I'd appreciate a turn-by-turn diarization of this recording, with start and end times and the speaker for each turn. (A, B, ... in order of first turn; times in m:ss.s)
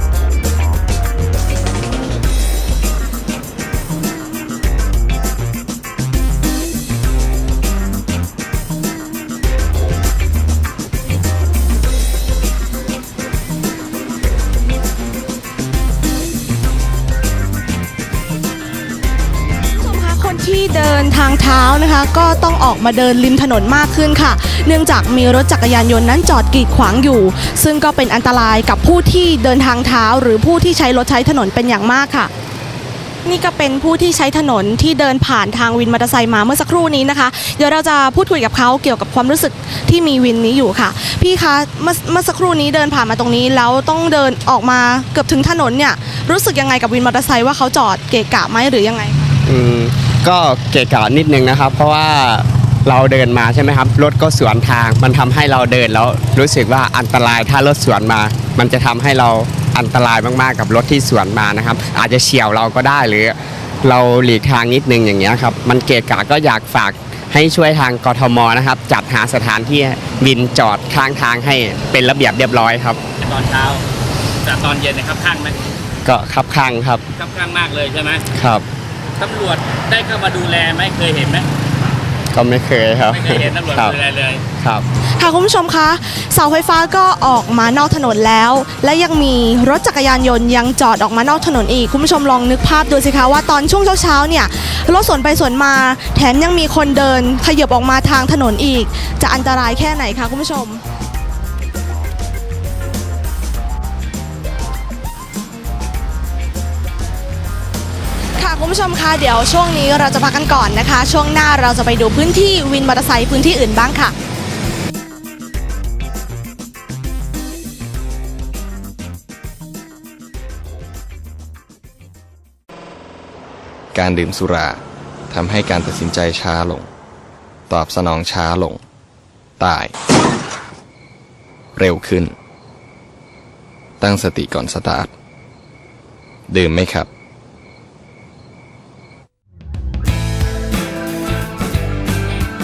0:19.7-0:32.3 A
0:33.2-0:49.3 A
0:49.4-1:13.0 B
1:13.2-1:13.8 C
1:14.4-1:15.6 C
1:16.0-1:17.0 B
1:17.2-1:18.2 C
1:18.3-1:18.6 B
1:19.2-1:21.9 C
1:22.3-1:24.0 B
1:23.1-1:24.4 C
1:25.2-1:40.8 A
1:48.4-1:54.1 A
2:03.9-2:06.9 D
2:07.7-2:08.8 D
2:09.6-2:09.9 D
2:11.8-2:12.3 D
2:14.0-2:15.1 D
2:16.5-2:17.1 D